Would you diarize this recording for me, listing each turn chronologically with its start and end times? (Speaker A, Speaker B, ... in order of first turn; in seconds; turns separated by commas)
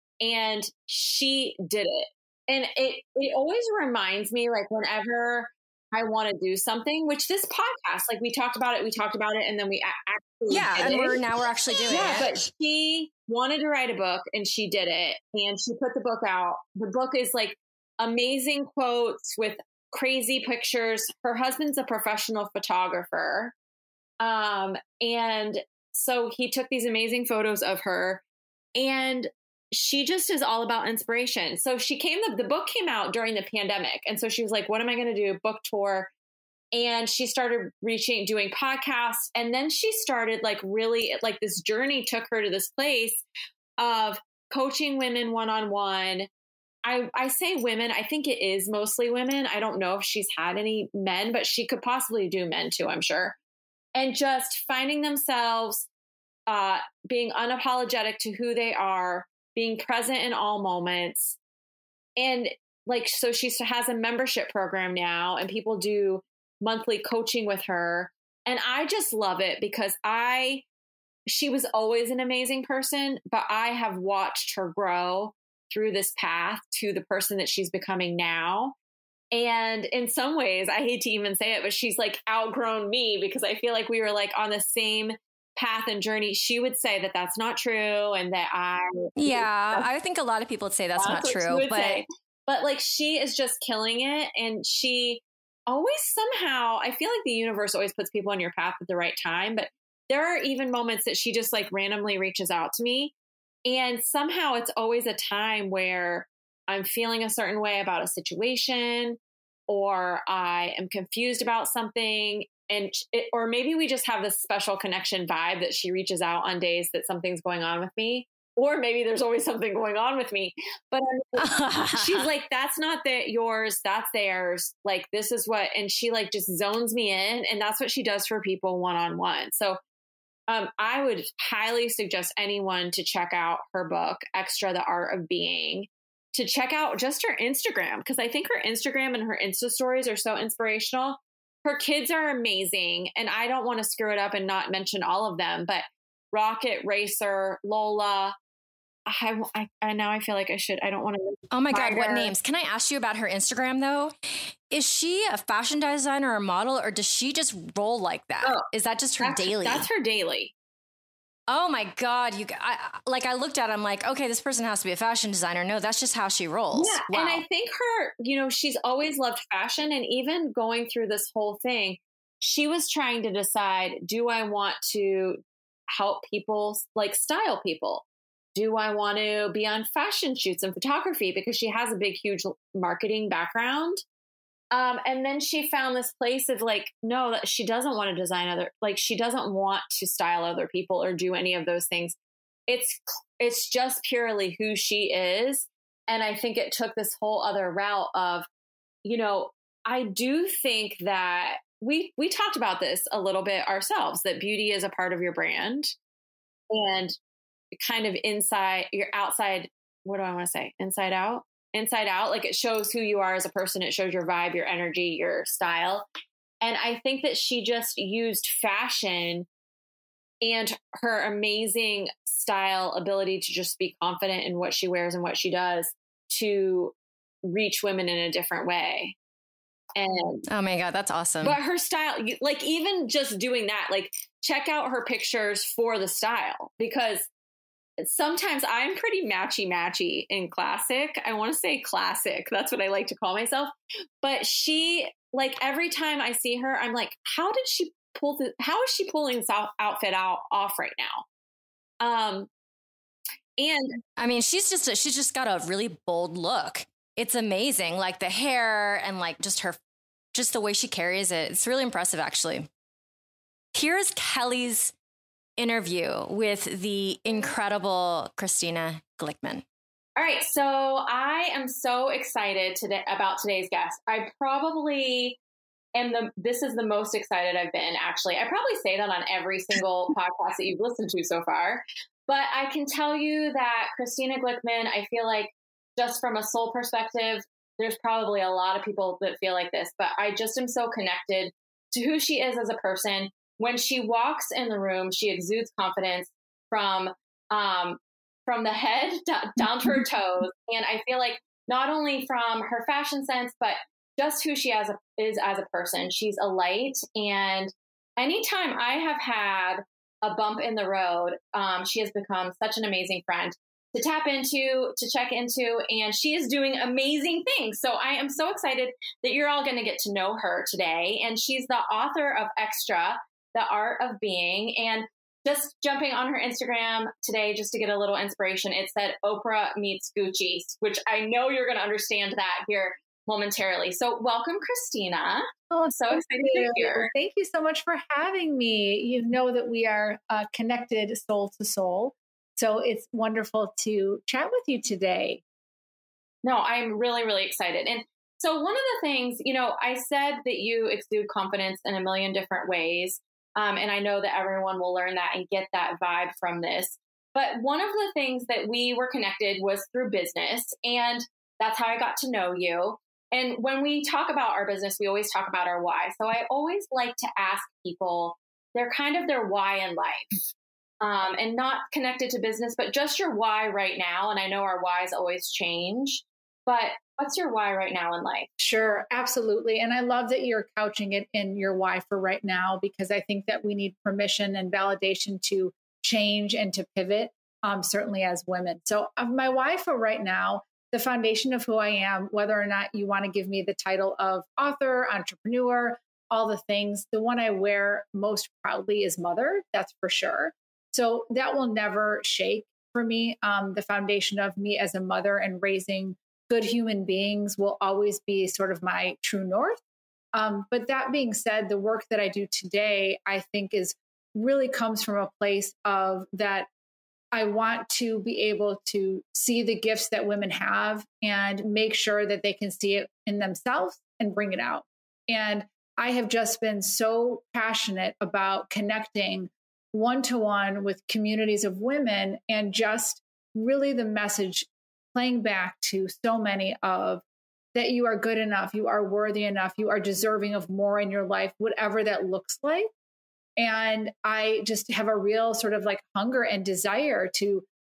Speaker A: 0.2-11.2, Speaker B: 10.5-12.5, Speaker A: 11.9-23.5, Speaker A: 24.2-28.2, Speaker A: 28.8-36.1, Speaker A: 36.7-43.2, Speaker A: 43.8-46.3, Speaker A: 46.8-53.4, Speaker A: 53.9-55.9, Speaker A: 56.5-61.4, Speaker A: 62.2-70.6, Speaker A: 71.3-78.7, Speaker A: 79.3-89.8, Speaker B: 89.2-92.0, Speaker A: 91.0-103.1, Speaker A: 103.7-129.8, Speaker B: 121.4-122.2, Speaker A: 130.5-148.3, Speaker A: 149.1-152.3, Speaker B: 151.5-154.1, Speaker B: 154.7-159.9, Speaker A: 158.4-158.7, Speaker A: 159.2-160.5, Speaker B: 161.5-167.4, Speaker A: 166.7-175.4, Speaker A: 175.9-178.0, Speaker A: 178.6-184.0, Speaker A: 184.7-192.2, Speaker A: 192.7-198.5, Speaker A: 199.0-205.9, Speaker A: 206.7-207.1, Speaker A: 207.8-216.0, Speaker A: 216.6-219.5, Speaker A: 220.4-226.9, Speaker A: 227.5-229.2, Speaker A: 229.9-230.4, Speaker B: 230.5-231.6, Speaker A: 231.4-237.3, Speaker A: 238.0-251.2, Speaker A: 252.0-252.5, Speaker A: 253.6-254.0, Speaker B: 254.2-259.8, Speaker B: 260.3-262.7, Speaker B: 263.7-264.9, Speaker B: 265.6-269.6, Speaker A: 270.2-275.4, Speaker A: 275.9-337.1, Speaker C: 335.7-345.4, Speaker A: 346.4-370.4, Speaker A: 371.0-378.5, Speaker C: 378.6-409.8, Speaker C: 410.3-416.7, Speaker C: 417.3-437.2, Speaker C: 437.7-442.9, Speaker C: 443.6-447.6